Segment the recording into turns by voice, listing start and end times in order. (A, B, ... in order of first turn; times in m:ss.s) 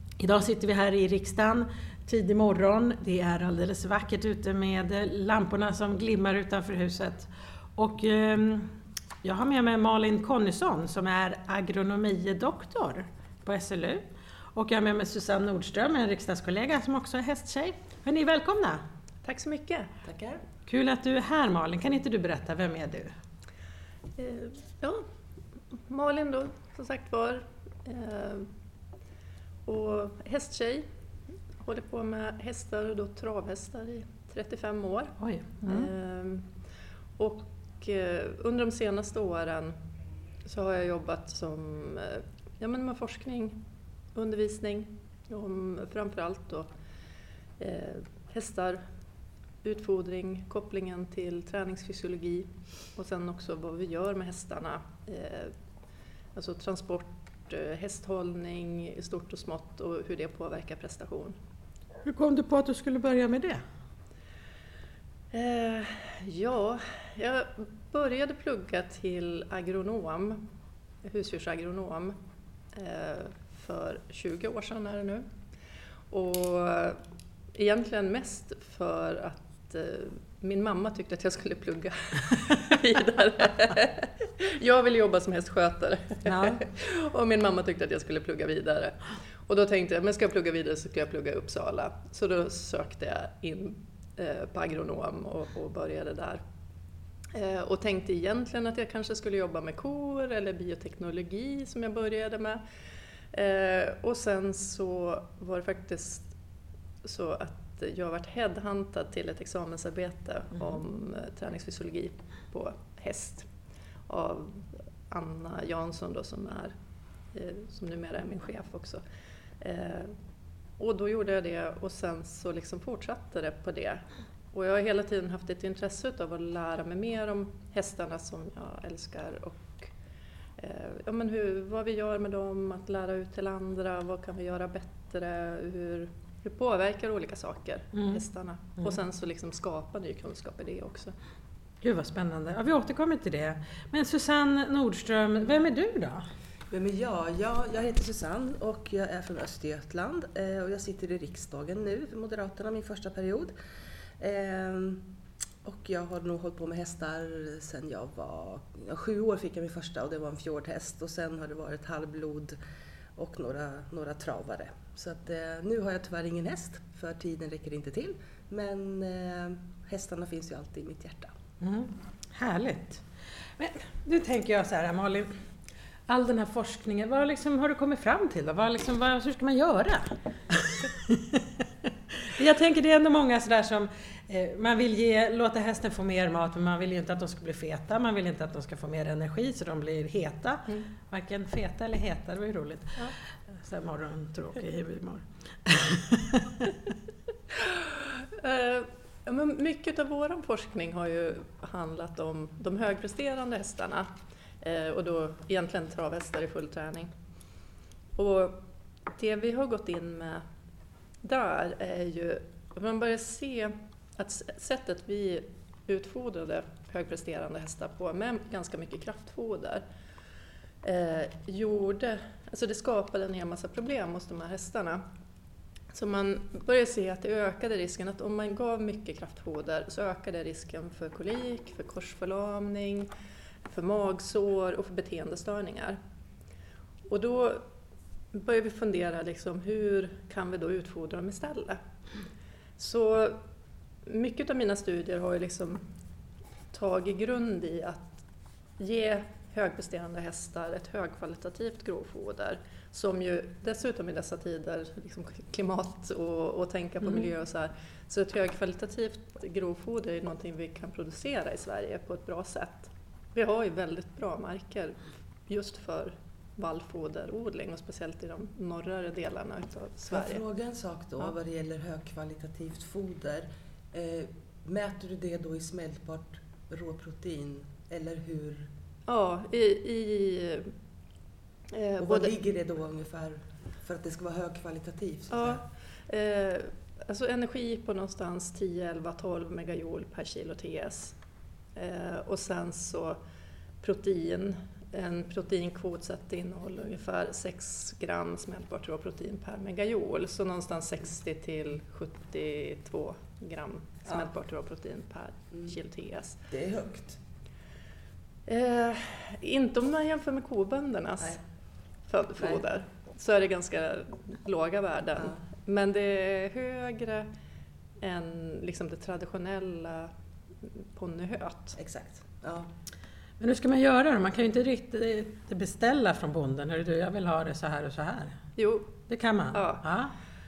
0:00.2-0:18.8 A
0:19.2-0:19.9 B
0:20.0-0:20.4 C
0:20.7-0:23.2 A
0:24.2-0:25.1 B
0:25.7-0:28.5 B
0:29.7-0:30.9 B
0:31.6-0:36.5 B
0:35.2-0:35.9 A
0:37.2-0:39.8 B
0:40.4-0:43.6 B
0:44.1-0:46.7 B
0:47.6-0:48.8 B
0:49.6-0:55.5 B
0:56.3-1:01.4 B
1:02.0-1:03.6 A
1:05.3-1:10.4 B
1:11.0-1:12.2 B
1:12.7-1:15.3 B
1:16.1-1:17.0 B
1:17.5-1:36.4 B
1:26.2-1:26.6 A
1:37.3-1:42.6 B
1:43.3-1:46.3 B
1:47.0-1:53.5 B
1:54.1-1:56.8 B
1:57.3-1:59.0 B
1:59.6-2:00.2 B
2:00.8-2:09.9 B
2:10.6-2:21.1 B
2:17.9-2:18.2 A
2:21.8-2:26.3 A
2:26.7-2:33.5 C
2:34.2-2:35.1 C
2:35.6-2:42.6 C
2:43.2-2:51.3 C
2:51.6-2:55.4 A
2:56.1-3:01.6 A
3:02.2-3:16.7 A
3:17.6-3:27.1 B
3:28.2-3:30.4 B
3:31.2-3:39.8 B
3:40.8-3:45.0 B
3:45.9-3:53.1 B
3:53.7-3:56.0 B
3:57.1-3:57.6 B
3:58.3-4:01.8 B
4:02.8-4:03.4 B
4:04.0-4:05.8 B
4:06.7-4:08.2 B
4:08.8-4:30.4 B
4:17.0-4:17.3 A
4:30.1-4:38.7 C
4:39.1-4:40.7 B
4:41.7-4:42.3 B
4:42.0-4:45.6 C
4:45.3-4:51.2 B
4:51.8-4:53.2 B
4:53.8-5:06.4 B
5:06.5-5:07.2 C
5:08.4-5:11.4 B
5:12.1-5:17.3 B
5:18.0-5:21.8 B
5:21.8-5:22.7 C
5:23.4-5:28.4 A
5:28.6-5:29.0 B
5:29.1-5:30.1 A
5:29.5-5:29.9 B